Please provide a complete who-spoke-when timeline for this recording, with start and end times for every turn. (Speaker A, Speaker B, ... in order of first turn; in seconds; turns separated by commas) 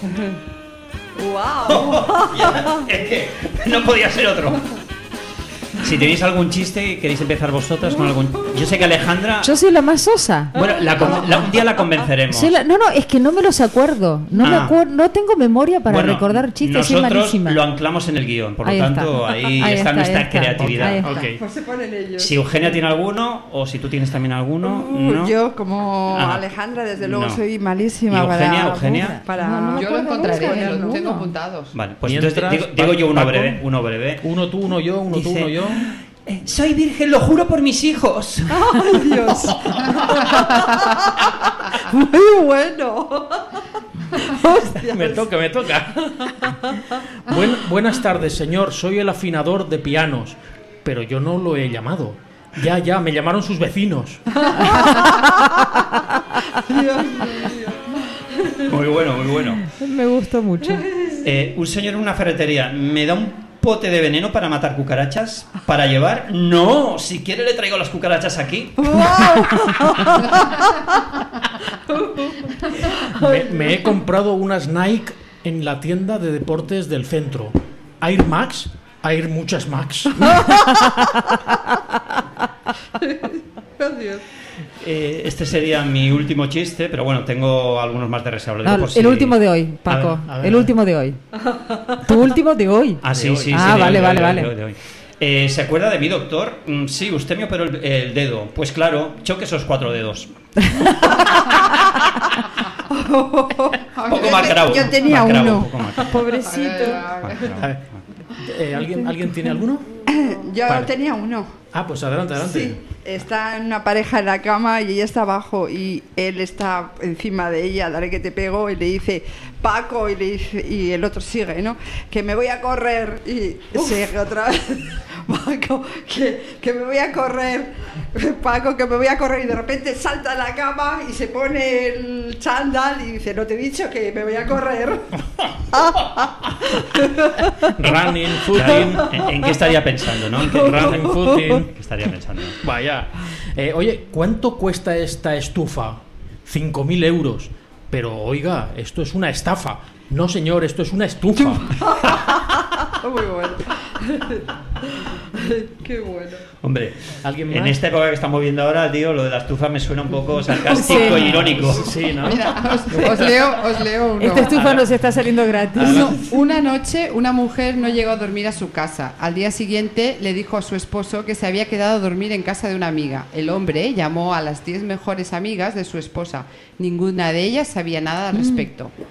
Speaker A: 1.2-2.8, Speaker B: 1.7-4.6, Speaker B: 5.8-9.6, Speaker C: 9.4-10.6, Speaker B: 10.5-12.6, Speaker C: 12.3-17.6, Speaker B: 14.3-14.8, Speaker B: 15.9-21.0, Speaker C: 18.6-21.3, Speaker D: 20.6-21.4, Speaker A: 21.3-22.4, Speaker B: 22.2-25.3, Speaker A: 24.6-30.9, Speaker B: 26.1-26.5, Speaker B: 27.0-27.4, Speaker B: 28.1-29.2, Speaker C: 28.9-31.3, Speaker E: 29.7-31.7, Speaker B: 31.7-34.2, Speaker D: 32.0-33.6, Speaker D: 34.2-35.9, Speaker B: 35.1-38.7, Speaker A: 38.5-45.3, Speaker D: 44.7-46.5, Speaker A: 46.3-47.0, Speaker D: 47.2-54.3, Speaker A: 54.3-55.8, Speaker C: 54.7-55.4, Speaker A: 56.5-58.7, Speaker B: 58.6-59.6, Speaker C: 59.6-60.9, Speaker A: 60.6-61.2, Speaker B: 61.1-69.0, Speaker A: 68.8-71.2, Speaker A: 71.7-73.9, Speaker D: 72.9-80.4, Speaker C: 80.3-81.6, Speaker A: 83.0-84.2, Speaker B: 84.8-90.2, Speaker C: 88.6-91.2, Speaker D: 90.2-90.7, Speaker A: 91.5-91.9, Speaker C: 92.0-94.5, Speaker B: 93.0-100.3, Speaker D: 93.1-94.3, Speaker C: 100.7-101.0, Speaker A: 101.1-101.9, Speaker A: 102.8-107.5, Speaker E: 103.9-104.9, Speaker B: 104.1-106.2, Speaker C: 106.1-107.0, Speaker E: 106.4-107.5, Speaker B: 107.1-108.0, Speaker D: 107.6-109.9, Speaker A: 110.0-111.5, Speaker D: 110.7-110.9, Speaker D: 111.7-112.8, Speaker A: 112.4-135.2, Speaker A: 135.7-137.7, Speaker D: 137.8-139.4, Speaker B: 137.8-142.6, Speaker D: 140.4-141.7, Speaker A: 140.4-141.4, Speaker D: 142.6-151.7, Speaker A: 151.3-154.5, Speaker A: 155.1-156.4, Speaker B: 156.6-161.9, Speaker D: 157.2-157.8, Speaker C: 160.8-161.2, Speaker D: 161.1-163.4, Speaker E: 162.2-164.7, Speaker C: 164.2-166.1, Speaker B: 164.5-164.8, Speaker E: 165.8-178.9, Speaker D: 165.8-166.1, Speaker C: 178.3-178.7